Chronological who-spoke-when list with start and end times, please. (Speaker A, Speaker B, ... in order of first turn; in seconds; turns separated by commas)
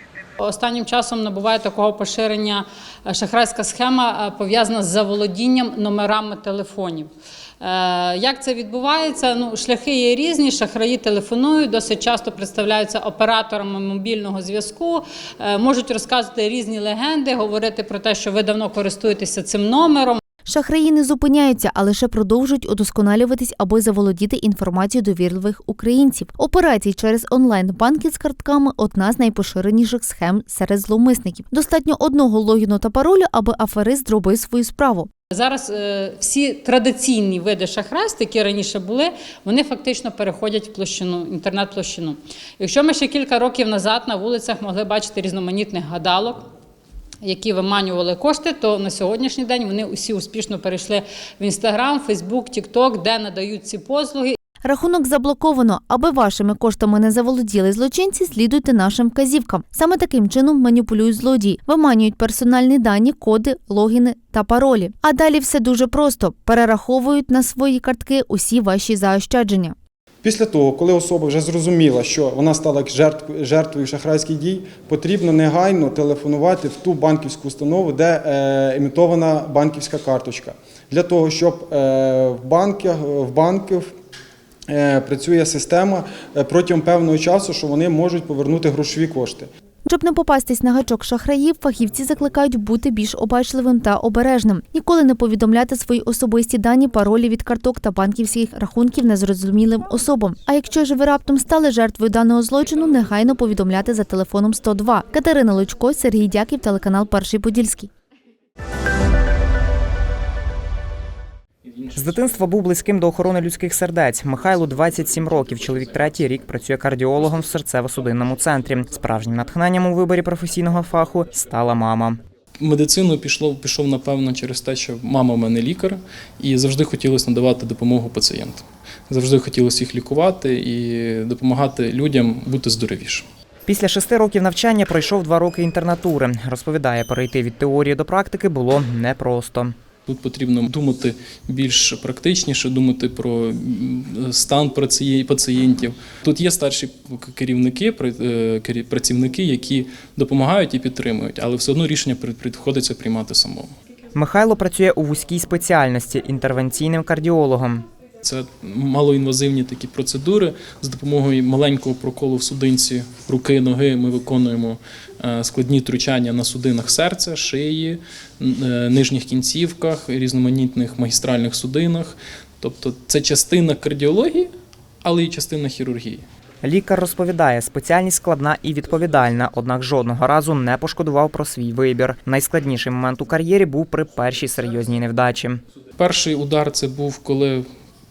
Speaker A: 0.4-7.1, Speaker A: 7.6-20.2, Speaker B: 20.4-35.1, Speaker A: 35.3-46.4, Speaker A: 47.2-54.4, Speaker B: 54.6-69.8, Speaker C: 70.2-83.9, Speaker C: 84.7-89.5, Speaker B: 89.8-107.9, Speaker D: 111.7-112.0, Speaker E: 111.9-122.2, Speaker D: 122.6-133.2, Speaker E: 133.7-139.7, Speaker D: 140.1-153.7, Speaker E: 154.1-157.8, Speaker D: 158.2-174.5, Speaker D: 175.0-176.2, Speaker E: 176.6-185.6, Speaker D: 186.0-187.6